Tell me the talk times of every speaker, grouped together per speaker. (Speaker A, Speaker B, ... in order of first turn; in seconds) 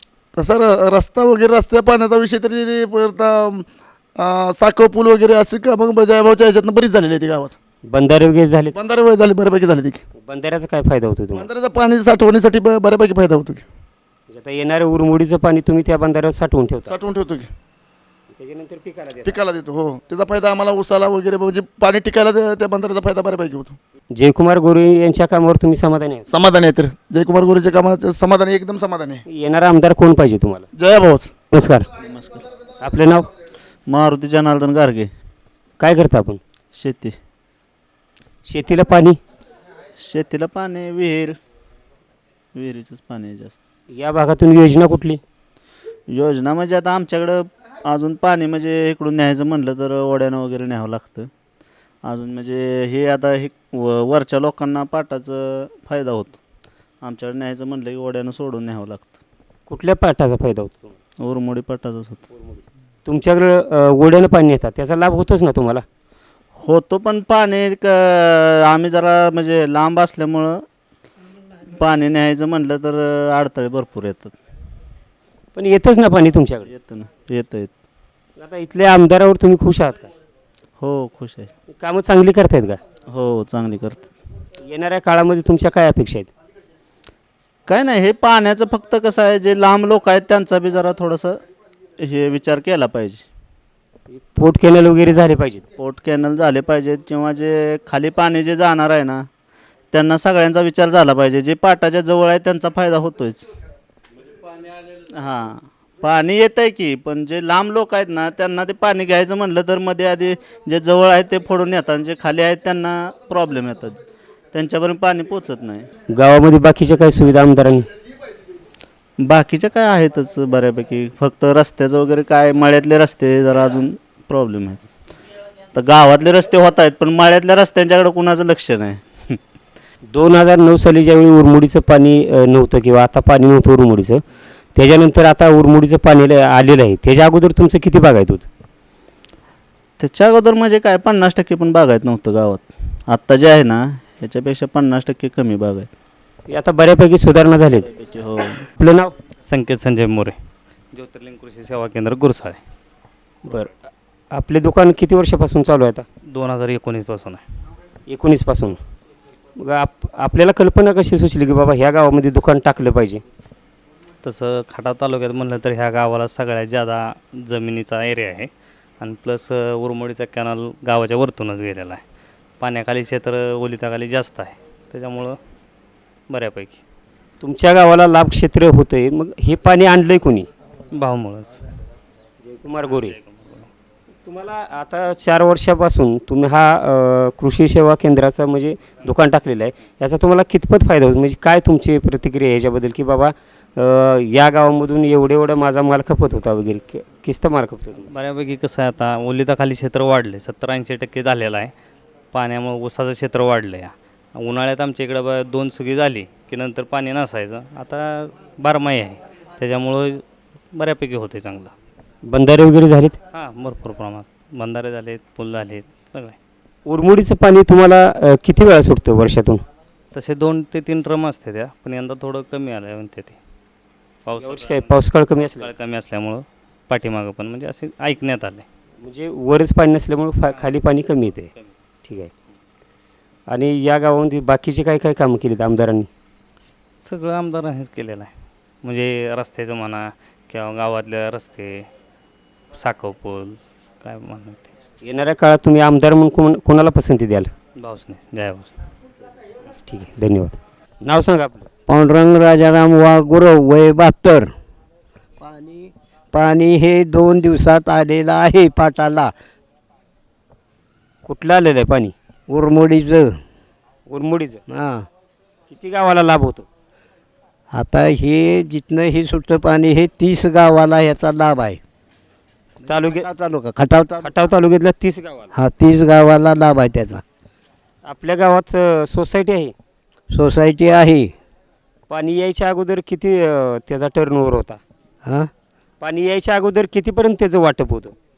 Speaker A: 0.3-3.7, 4.2-7.6, 8.7-10.0, 11.3-13.7, 16.9-17.5, 19.2-23.8, 26.3-29.2, 30.8-31.3
Speaker B: 7.9-8.8, 10.2-11.5, 14.3-17.0, 18.4-19.4, 24.1-26.3, 29.3-30.7, 31.5-31.9, 32.8-33.3, 35.8-36.4, 38.5-39.2, 43.9-45.2, 59.7-60.9, 62.4-65.8, 75.5-76.7, 78.4-80.1, 81.8-82.8, 84.6-86.3, 94.1-95.6, 116.1-117.9, 130.1-134.2, 134.8-138.5, 146.5-147.9, 148.8-149.1, 153.5-153.7, 154.3-156.1, 158.1-158.8, 159.6-163.2, 177.4-180.5, 182.5-183.2, 184.3-198.1, 212.3-213.2, 216.9-219.6, 224.4-225.7, 229.0-231.5, 232.1-232.3, 233.5-236.1, 245.0-247.5, 249.9-251.7, 261.2-262.1, 264.1-264.6, 265.7-266.7, 272.9-273.3, 274.2-275.5, 278.1-279.7, 282.1-284.8, 286.0-288.1
Speaker C: 32.0-32.5, 33.9-35.1, 36.8-37.2, 40.0-41.4, 42.5-43.6, 46.1-51.3, 52.0-56.4, 57.0-59.2, 61.2-62.3, 66.6-70.7, 71.7-74.3, 76.7-77.7, 80.8-81.5, 83.1-84.1, 87.7-91.4, 92.0-93.3, 95.8-99.3, 99.9-103.5, 105.1-114.0, 114.5-115.9, 119.2-124.9, 125.7-129.4, 140.0-145.9, 147.9-148.7
Speaker D: 149.5-150.4, 150.9-152.6, 156.3-157.4, 164.2-172.0, 172.6-175.4, 176.3-176.8, 180.9-181.6, 182.9-183.7, 198.1-201.7, 202.3-211.7, 213.3-216.4, 220.1-223.4, 224.2-225.0, 225.6-228.7, 237.0-238.3, 238.8-241.9, 242.7-244.7, 247.8-248.8
Speaker E: 251.9-254.5, 255.4-259.3, 262.5-263.4, 264.7-265.1, 267.7-271.8, 272.9-274.3, 275.5-277.2, 280.3-281.3